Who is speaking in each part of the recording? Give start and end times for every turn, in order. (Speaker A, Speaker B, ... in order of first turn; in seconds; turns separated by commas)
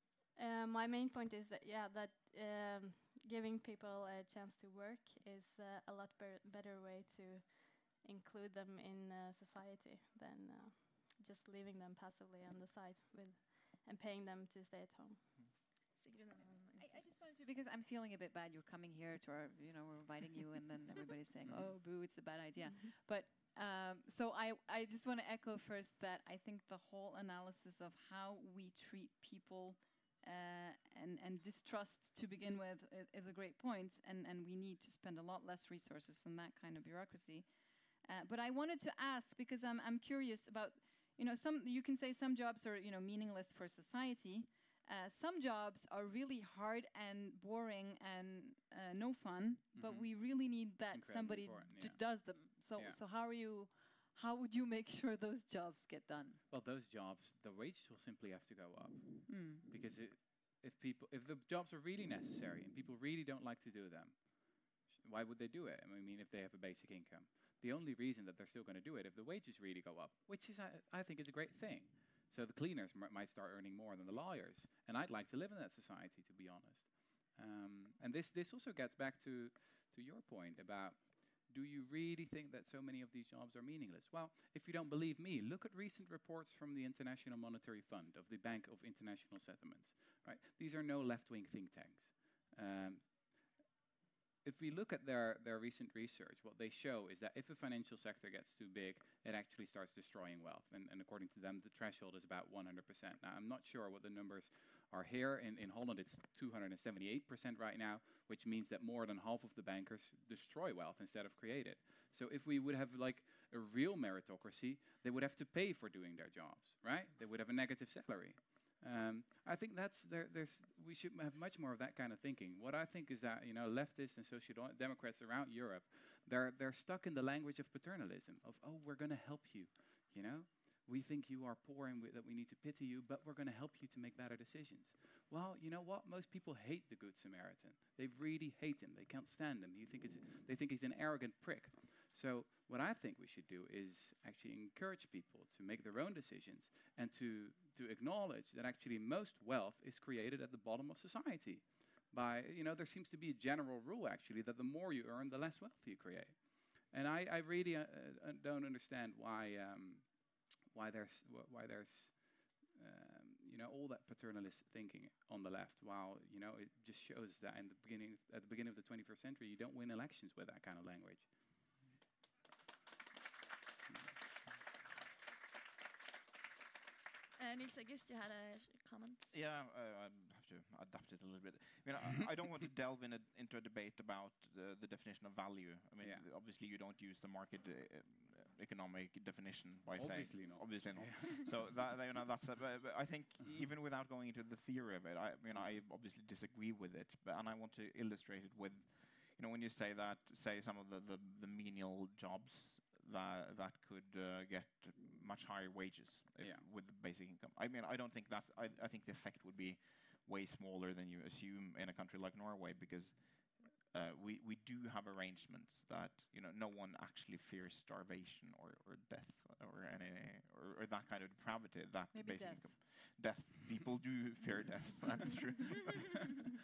Speaker A: 0.3-15.3, Speaker B: 15.9-17.1, Speaker C: 16.8-37.5, Speaker D: 21.4-21.7, Speaker C: 38.0-56.4, Speaker D: 49.7-53.0, Speaker D: 56.5-93.6, Speaker C: 59.3-59.7, Speaker D: 94.4-171.3, Speaker B: 177.4-179.3, Speaker E: 179.3-226.4, Speaker D: 186.0-186.2, Speaker D: 189.9-191.9, Speaker C: 222.1-222.8